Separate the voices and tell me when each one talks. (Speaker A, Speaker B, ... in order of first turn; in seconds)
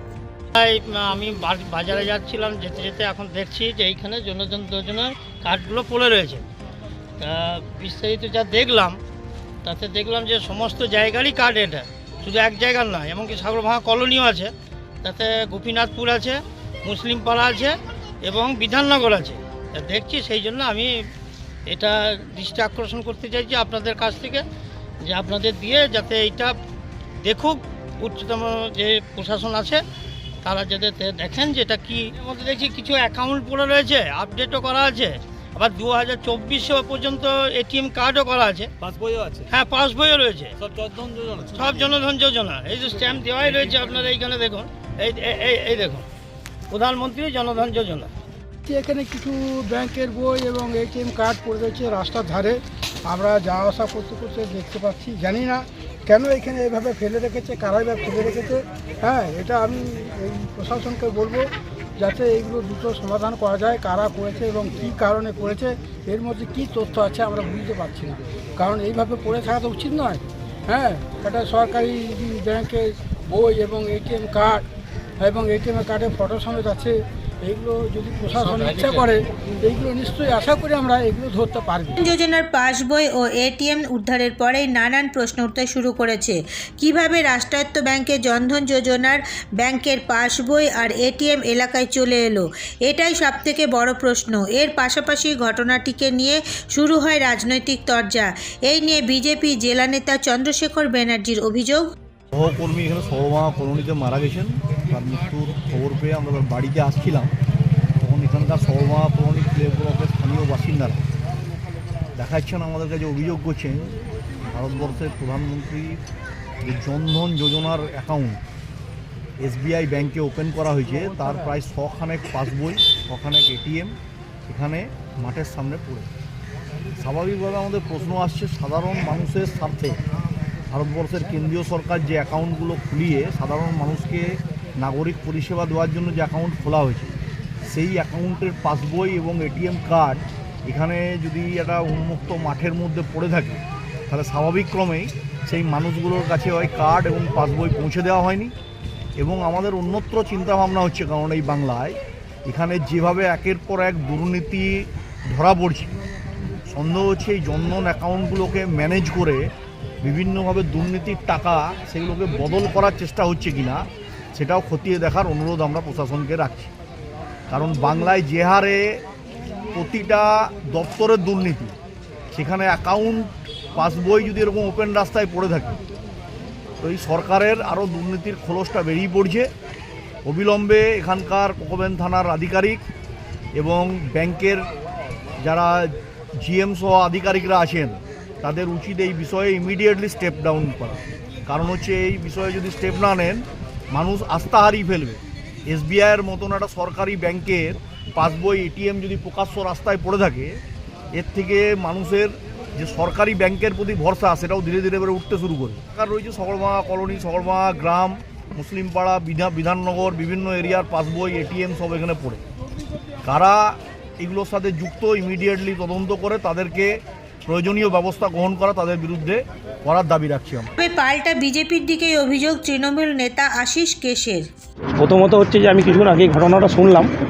Speaker A: 0.5-6.4, 7.2-9.0, 9.6-14.5, 15.0-17.7, 18.2-20.9, 21.7-24.4, 25.1-26.6, 27.2-29.8, 30.4-38.7, 39.5-40.6, 41.5-46.0, 46.7-48.1
Speaker B: 38.8-39.5, 40.6-42.0
Speaker C: 48.7-74.7, 75.2-82.0
Speaker D: 82.0-101.9, 220.8-224.5
Speaker E: 102.3-107.3, 108.0-111.0, 112.2-114.0, 114.5-116.0, 116.6-118.4, 119.4-124.0, 124.5-126.1, 127.0-130.0, 130.7-137.1, 137.7-148.5, 149.2-155.9, 156.7-159.5, 160.0-166.7, 167.5-169.0, 169.7-171.7, 172.3-175.8, 176.8-179.5, 180.2-182.8, 183.6-184.7, 185.4-200.6, 201.1-212.4, 213.2-216.9, 217.5-220.7
Speaker F: 225.0-227.1